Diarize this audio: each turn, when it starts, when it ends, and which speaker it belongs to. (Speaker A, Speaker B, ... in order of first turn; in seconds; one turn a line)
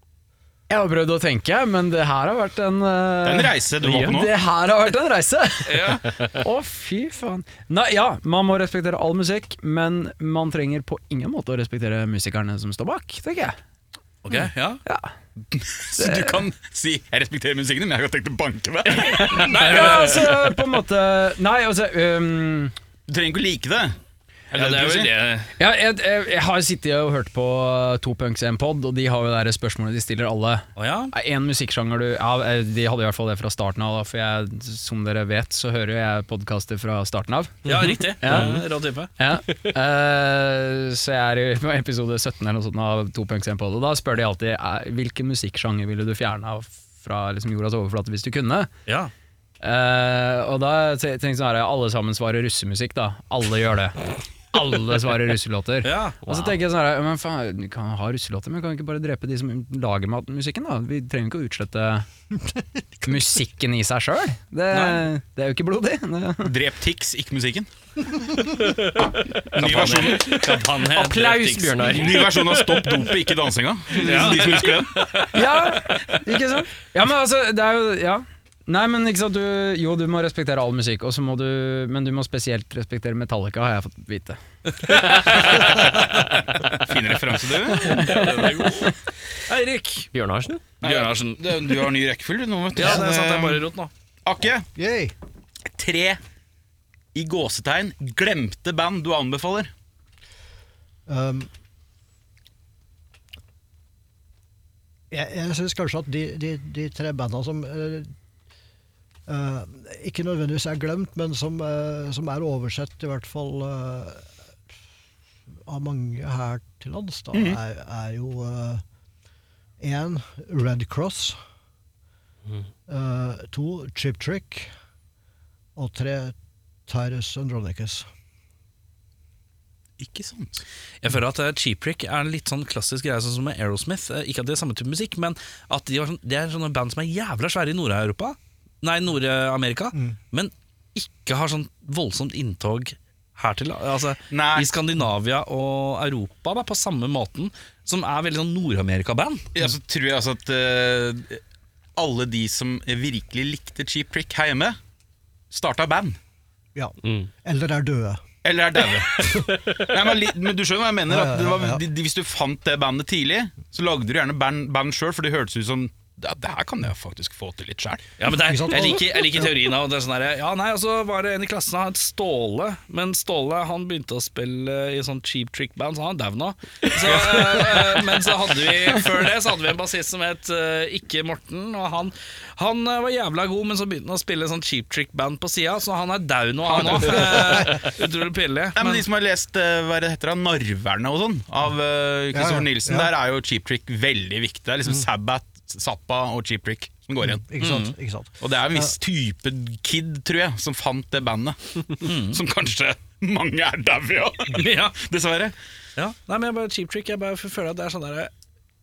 Speaker A: 0.7-13.6
Speaker B: 3.2-4.3
Speaker C: 5.7-6.1
Speaker C: 14.2-14.8
Speaker B: 15.5-19.8
Speaker A: 16.0-16.4
Speaker A: 19.0-22.7
Speaker C: 19.3-20.4
Speaker B: 23.1-24.0
Speaker B: 24.5-25.1
Speaker C: 24.5-25.5
Speaker A: 25.6-38.7
Speaker C: 30.8-31.1
Speaker D: 37.7-38.0
Speaker C: 37.7-39.1
Speaker A: 39.2-48.7
Speaker C: 48.9-49.1
Speaker A: 49.6-54.0
Speaker A: 54.5-62.1
Speaker C: 55.8-56.5
Speaker A: 63.0-66.5
Speaker C: 64.7-65.0
Speaker B: 66.4-67.7
Speaker B: 69.5-70.5
Speaker C: 69.5-72.2
Speaker D: 71.0-72.8
Speaker B: 71.8-75.0
Speaker C: 74.0-75.4
Speaker A: 75.3-85.0
Speaker C: 84.8-86.4
Speaker B: 86.7-88.1
Speaker C: 87.8-90.1
Speaker D: 90.1-90.6
Speaker C: 90.8-91.9
Speaker B: 90.8-93.7
Speaker C: 92.8-93.9
Speaker B: 94.2-94.7
Speaker E: 94.8-95.1
Speaker B: 95.7-96.2
Speaker B: 97.1-99.7
Speaker E: 101.1-101.5
Speaker E: 105.1-108.1
Speaker E: 109.3-114.3
Speaker E: 115.7-118.8
Speaker B: 117.3-117.6
Speaker E: 119.8-121.4
Speaker E: 122.9-124.7
Speaker E: 125.8-126.3
Speaker E: 126.9-128.1
Speaker B: 130.0-130.6
Speaker C: 131.0-149.5
Speaker B: 144.3-144.7
Speaker B: 149.5-151.4
Speaker B: 152.0-154.8
Speaker B: 155.5-156.2
Speaker E: 156.8-158.2
Speaker D: 157.0-157.3
Speaker B: 158.4-168.1
Speaker E: 159.2-159.5
Speaker E: 161.1-161.8
Speaker C: 168.2-189.0
Speaker E: 168.4-169.5
Speaker B: 186.7-187.5
Speaker B: 188.8-197.4
Speaker E: 192.3-193.1
Speaker E: 197.2-198.9
Speaker C: 197.6-197.9
Speaker B: 198.4-205.6
Speaker C: 202.0-202.4
Speaker C: 204.5-205.0
Speaker C: 206.0-208.3